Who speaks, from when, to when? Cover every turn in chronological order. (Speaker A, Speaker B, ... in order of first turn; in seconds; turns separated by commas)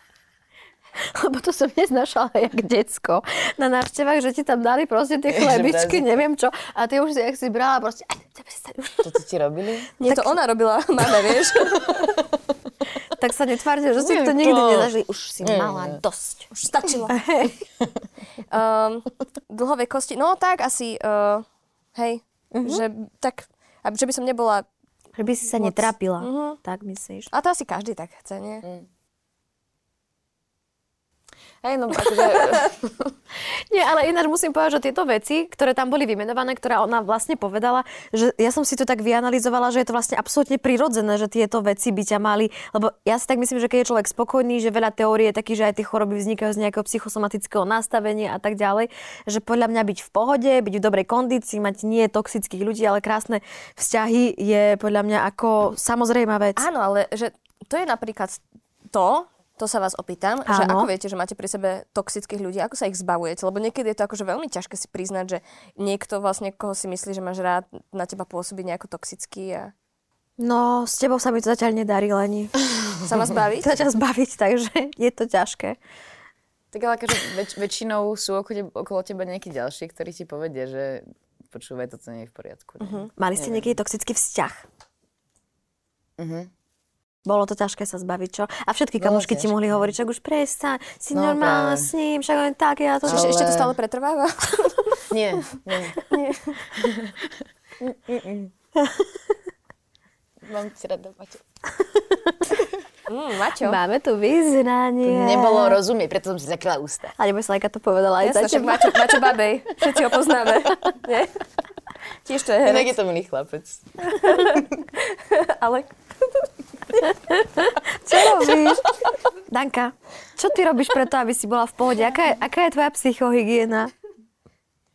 Speaker A: 1.1-9.1, Speaker B: 5.3-6.2, Speaker B: 9.0-9.9, Speaker C: 10.0-12.1, Speaker A: 10.0-10.4, Speaker B: 11.9-12.2, Speaker A: 13.2-16.5, Speaker B: 14.0-16.0, Speaker C: 16.5-17.1, Speaker A: 17.1-17.6, Speaker C: 18.5-24.7, Speaker A: 22.5-22.9, Speaker A: 25.2-27.3, Speaker C: 25.6-26.6, Speaker C: 27.3-28.7, Speaker B: 31.6-33.2, Speaker A: 33.7-56.6, Speaker C: 56.6-69.7, Speaker A: 60.5-60.9, Speaker A: 70.4-72.5, Speaker C: 73.0-73.7, Speaker A: 73.6-75.8, Speaker B: 76.7-83.7, Speaker A: 83.2-84.7, Speaker B: 86.2-86.5, Speaker A: 87.2-93.4, Speaker B: 89.0-89.9, Speaker B: 91.1-91.9, Speaker C: 93.0-95.1, Speaker B: 93.1-93.8, Speaker B: 95.1-96.0, Speaker C: 96.0-96.6, Speaker B: 96.8-98.5, Speaker A: 98.8-99.1, Speaker B: 100.4-101.4, Speaker A: 101.8-102.7, Speaker C: 103.1-103.8, Speaker A: 103.6-105.8, Speaker B: 105.0-107.1, Speaker A: 107.2-109.1, Speaker C: 108.2-111.4, Speaker C: 112.2-113.0, Speaker B: 112.6-114.5, Speaker C: 114.1-116.4, Speaker A: 117.0-118.9, Speaker A: 119.5-123.9